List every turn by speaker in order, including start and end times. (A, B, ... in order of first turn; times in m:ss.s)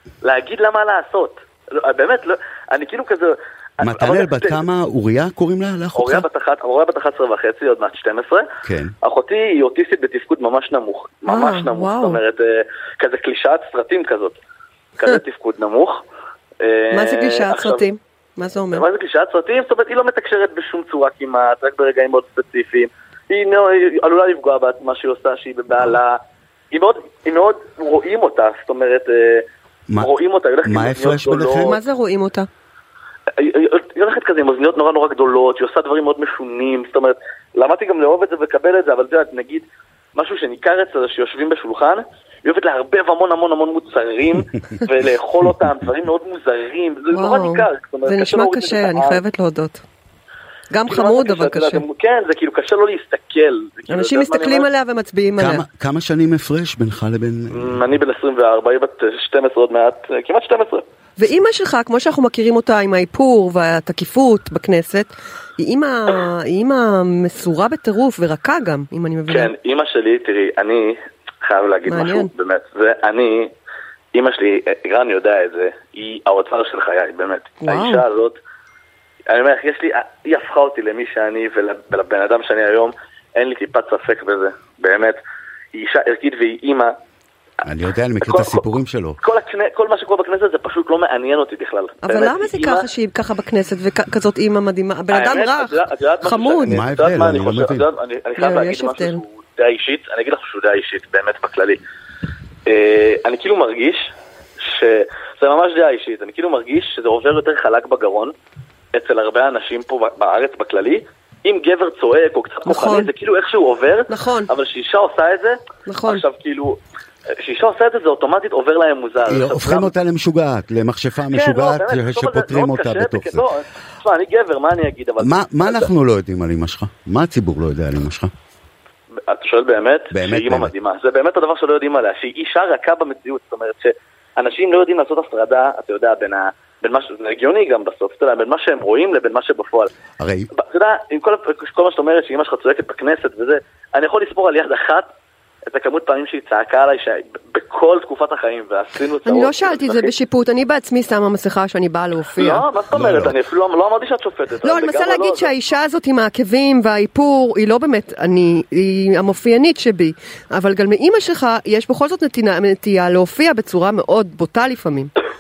0:00.2-0:04.6 A
0:03.8-0:06.3 B
0:05.9-0:08.5 A
0:08.6-0:08.9 B
0:09.0-0:14.4 A
0:11.2-0:12.2 C
0:15.0-0:16.0 A
0:16.6-0:17.8 A
0:16.9-0:18.8 C
0:18.7-0:26.2 A
0:26.7-0:29.4 A
0:30.0-0:31.8 A
0:30.6-0:31.8 B
0:31.6-0:32.5 C
0:33.4-0:49.2 A
0:47.1-0:49.8 C
0:50.7-0:51.8 C
0:50.9-0:54.7 A
0:53.9-0:55.6 C
0:55.4-0:57.8 B
0:57.5-1:00.8 A
1:01.2-1:09.5 C
1:09.3-1:13.5 A
1:11.9-1:12.3 C
1:14.1-1:18.4 A
1:17.6-1:18.0 C
1:19.3-1:25.2 A
1:25.7-1:26.9 A
1:27.6-1:29.2 B
1:28.2-1:28.6 A
1:29.2-1:32.8 A
1:32.0-1:36.8 C
1:35.1-1:41.8 A
1:36.7-1:37.9 B
1:38.4-1:39.2 C
1:42.6-1:44.1 A
1:44.6-1:48.3 A
1:48.9-1:56.8 A
1:52.6-1:53.1 C
1:54.1-1:54.5 C
1:55.9-1:56.2 C
1:57.4-1:59.9 A
1:59.2-2:03.5 B
2:01.3-2:05.9 A
2:05.2-2:08.3 B
2:09.2-2:19.9 A
2:10.1-2:10.7 B
2:20.2-2:20.5 B
2:20.5-2:25.1 A
2:25.6-2:30.1 A
2:29.2-2:32.6 C
2:32.4-2:35.5 A
2:32.9-2:33.4 B
2:34.6-2:45.1 C